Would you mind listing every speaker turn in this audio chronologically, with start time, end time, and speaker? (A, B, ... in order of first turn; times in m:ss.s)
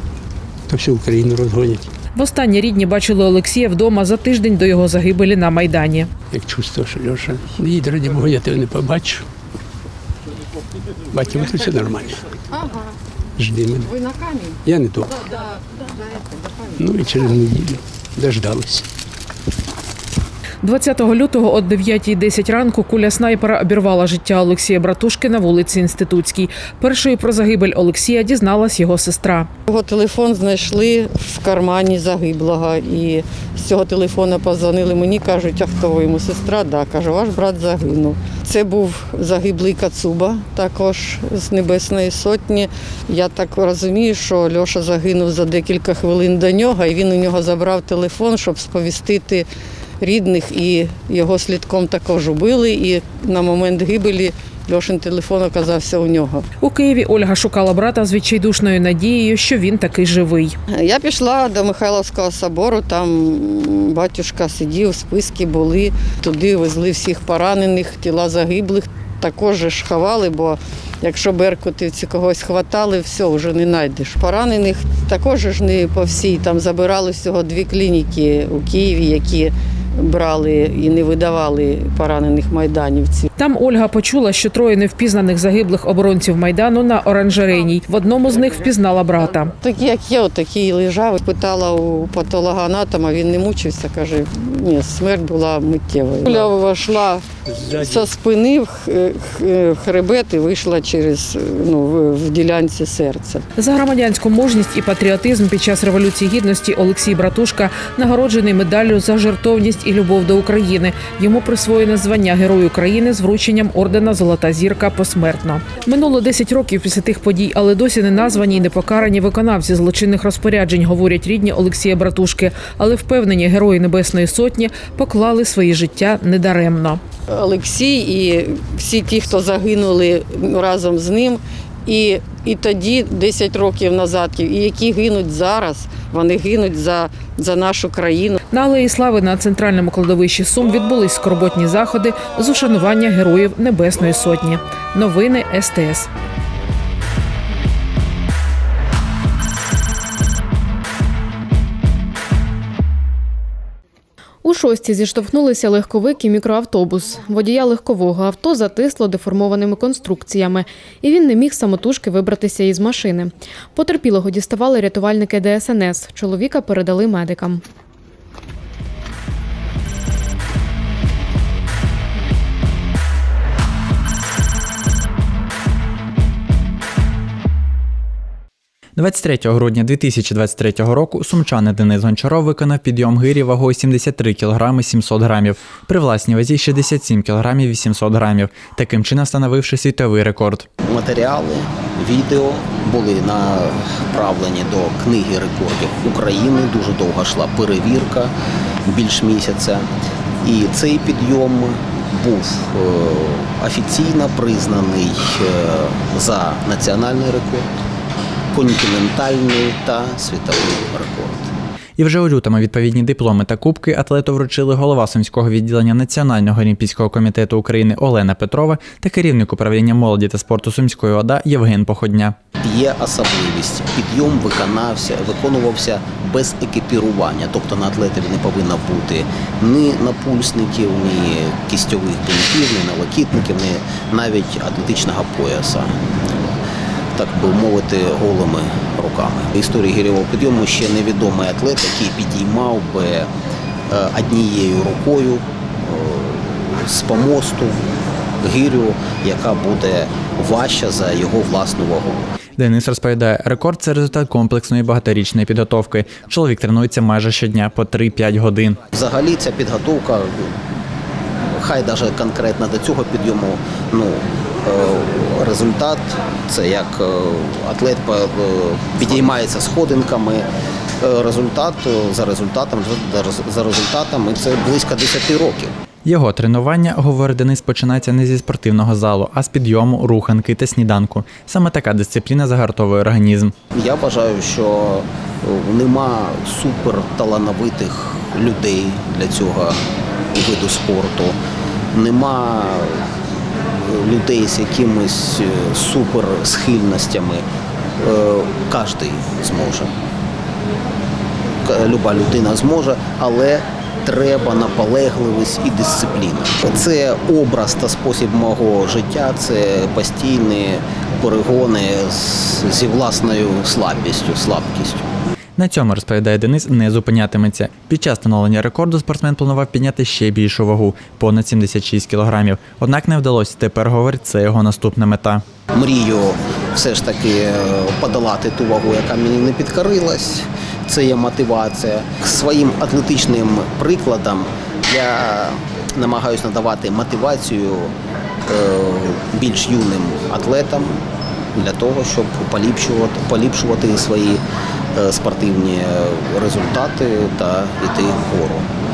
0:00.7-0:01.9 A
0:02.2-0:06.1 B
0:06.3-0:09.2 A
0:11.1-0:12.2 A
0:12.5-0:13.0 C
0:13.4-0:13.9 A
0:13.8-0:14.6 C
0:14.6-0:15.2 A
0:15.2-0:16.8 C
0:16.8-0:18.9 A
0:20.6-0:29.5 B
0:29.7-0:49.5 C
0:50.0-0:56.4 C
0:56.6-1:00.6 B
1:00.7-1:23.3 C
1:23.4-1:29.5 B
1:29.6-1:43.4 C
1:37.5-1:38.1 A
1:43.6-2:07.0 B
2:07.3-2:18.4 C
2:18.5-2:26.1 B
2:34.4-2:47.6 D
2:59.0-3:10.7 E
3:10.8-3:18.3 F
3:18.9-3:19.9 F
3:20.4-3:27.7 F
3:28.5-3:31.5 F
3:32.0-3:42.4 E
3:42.6-3:55.9 F
3:57.2-4:03.3 F
4:03.9-4:07.8 F
4:08.4-4:12.3 F
4:12.6-4:18.8 E
4:18.9-4:20.5 F
4:21.5-4:30.5 F
4:31.0-4:35.7 F
4:36.0-4:43.5 E
4:43.8-4:49.8 F
4:50.3-4:51.4 F
4:51.9-4:53.1 F
4:53.8-4:57.4 F
4:58.0-4:59.9 F
5:01.6-5:15.0 F
5:15.6-5:25.4 E
5:25.7-5:37.9 F
5:38.5-5:41.0 F
5:41.6-5:44.4 F
5:44.9-5:48.7 F